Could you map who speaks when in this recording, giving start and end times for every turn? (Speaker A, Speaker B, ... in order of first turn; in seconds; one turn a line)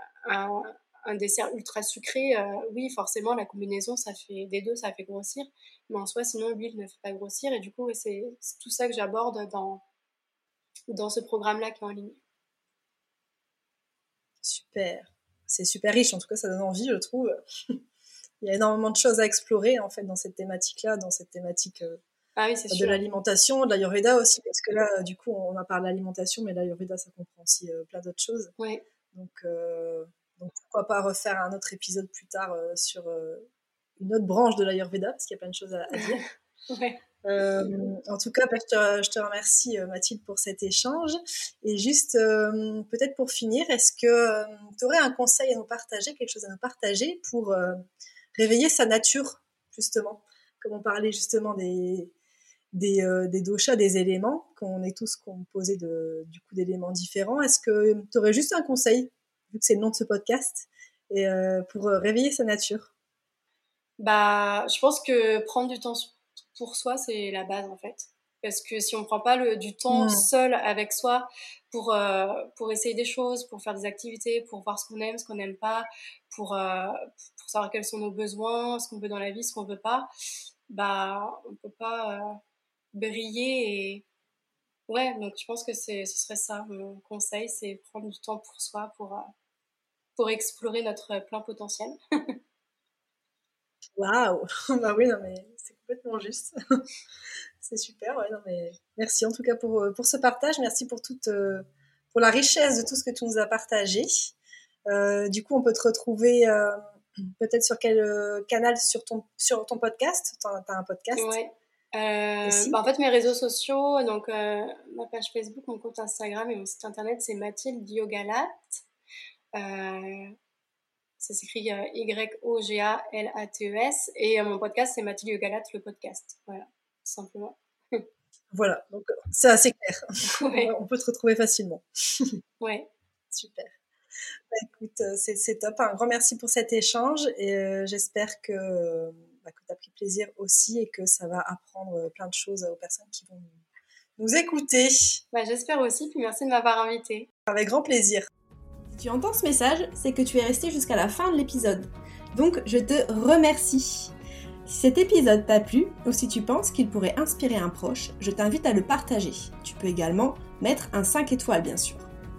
Speaker A: 0.2-9.8
Speaker A: 10.9-12.2
Speaker B: 14.4-17.8
Speaker B: 18.4-22.0
Speaker A: 22.4-23.0
Speaker B: 22.7-28.5
Speaker A: 28.6-28.8
Speaker B: 29.1-36.2
Speaker A: 36.7-37.0
Speaker B: 37.2-47.8
Speaker B: 48.4-52.1
Speaker B: 52.7-62.9
Speaker A: 64.0-80.1
Speaker B: 69.9-70.3
Speaker A: 80.7-82.4
Speaker A: 82.9-84.0
Speaker A: 84.9-89.3
Speaker A: 90.2-92.3
Speaker B: 94.0-96.8
Speaker B: 97.6-104.3
Speaker B: 104.9-111.3
Speaker A: 111.1-118.8
Speaker B: 112.4-112.8
Speaker A: 119.5-120.3
Speaker A: 121.2-128.1
Speaker B: 128.5-132.4
Speaker A: 130.3-130.7
Speaker A: 132.6-132.9
Speaker B: 133.3-133.7
Speaker B: 134.5-143.6
Speaker B: 144.2-145.2
Speaker A: 145.3-147.3
Speaker B: 147.5-148.3
Speaker C: 148.9-154.1
Speaker C: 154.7-162.1